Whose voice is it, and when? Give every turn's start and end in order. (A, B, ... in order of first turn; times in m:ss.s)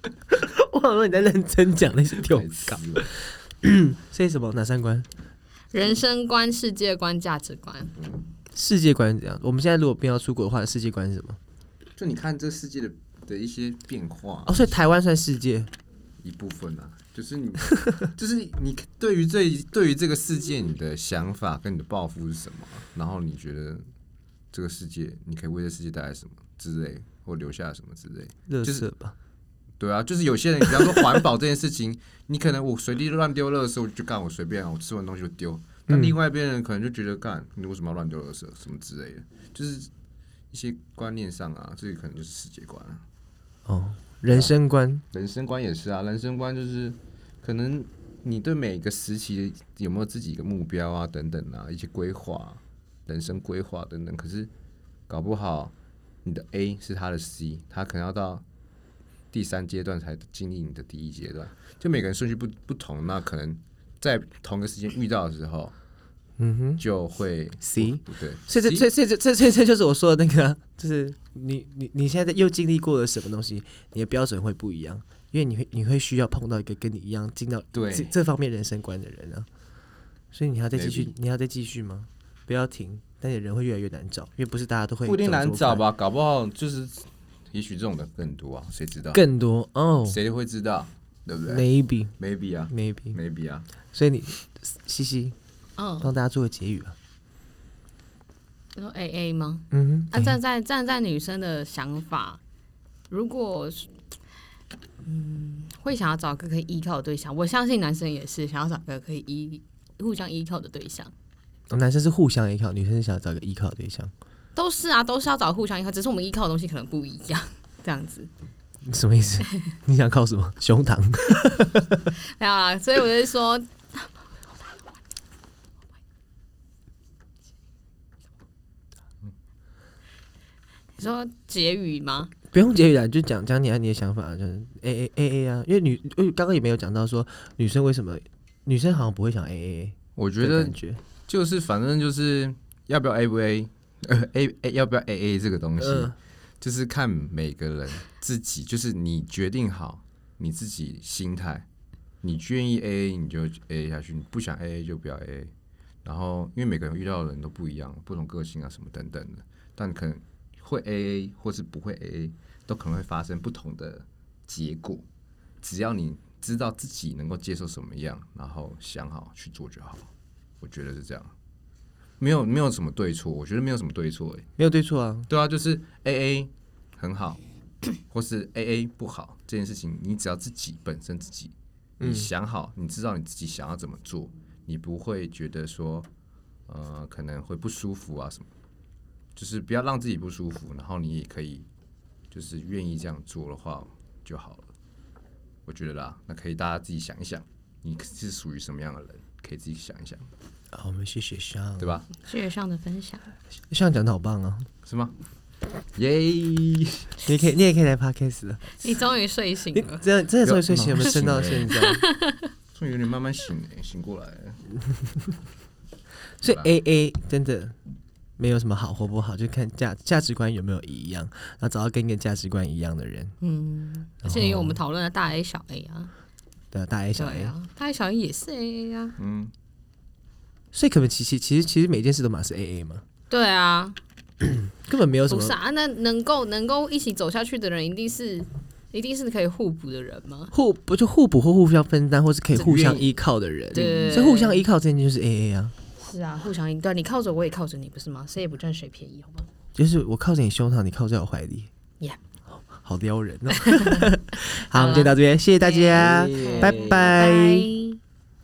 0:00.3-0:05.1 A
0:02.2-0:03.1 B
0:05.7-0:07.9 C
0:08.0-0:08.2 B
0:08.6-0:11.4 A
0:12.0-0:14.7 B
0:14.5-0:15.7 A
0:16.2-0:23.9 B
0:24.5-0:28.9 B
0:28.5-0:29.2 A
0:29.8-0:39.9 B
0:35.9-0:36.2 A
0:40.5-0:43.0 B
0:43.7-0:45.0 A
0:44.3-0:44.5 B
0:45.1-0:54.5 B
0:55.1-0:55.7 B
0:56.2-0:58.4 B
0:59.3-1:05.7 B
1:06.4-1:06.8 A
1:06.8-1:08.9 B
1:07.6-1:19.5 A
1:17.7-1:18.1 B
1:20.3-1:25.8 A
1:20.7-1:21.1 B
1:25.0-1:29.2 B
1:29.1-1:30.2 A
1:30.1-1:31.7 B
1:31.5-1:32.2 A
1:32.2-1:33.7 B
1:32.7-1:33.2 A
1:33.9-1:35.4 A
1:35.8-1:36.1 C
1:36.0-1:37.0 A
1:38.8-1:42.4 C
1:39.7-1:40.4 A
1:43.1-1:43.9 C
1:45.0-1:51.1 C
1:51.7-1:54.1 A
1:54.6-1:58.3 C
1:58.8-2:02.1 A
2:02.4-2:04.3 C
2:11.0-2:12.3 C
2:12.5-2:21.0 A
2:20.2-2:31.7 B
2:25.8-2:26.2 A
2:32.2-2:35.5 B
2:36.0-2:45.0 B
2:45.6-2:50.1 B
2:50.6-2:51.3 B
2:52.2-2:54.5 B
2:54.6-2:55.3 A
2:55.3-2:57.4 B
2:58.1-3:06.1 B
3:02.0-3:02.3 A
3:06.7-3:08.5 B
3:09.4-3:11.7 B
3:12.3-3:14.7 B
3:15.7-3:20.3 B
3:20.7-3:22.0 A
3:21.8-3:22.1 B
3:22.2-3:23.2 C
3:23.7-3:24.7 A
3:24.8-3:25.1 B
3:26.0-3:27.2 B
3:27.2-3:28.7 A
3:28.8-3:30.0 C
3:29.7-3:32.0 A
3:30.4-3:31.7 B
3:31.7-3:32.5 C
3:32.7-3:34.7 B
3:36.4-3:37.8 A
3:38.4-3:43.4 A
3:43.4-3:46.1 C
3:44.2-3:44.8 A
3:46.7-3:47.5 A
3:47.2-3:49.2 C
3:49.2-3:49.5 B
3:50.7-3:53.0 A
3:53.3-3:54.0 C
3:54.4-3:55.6 A
3:55.3-4:00.5 C
4:00.5-4:05.7 A
4:02.5-4:03.1 B
4:03.7-4:04.6 C
4:03.8-4:04.2 B
4:06.0-4:09.5 C
4:09.8-4:11.7 A
4:12.7-4:17.7 A
4:13.6-4:18.0 C
4:16.0-4:17.0 B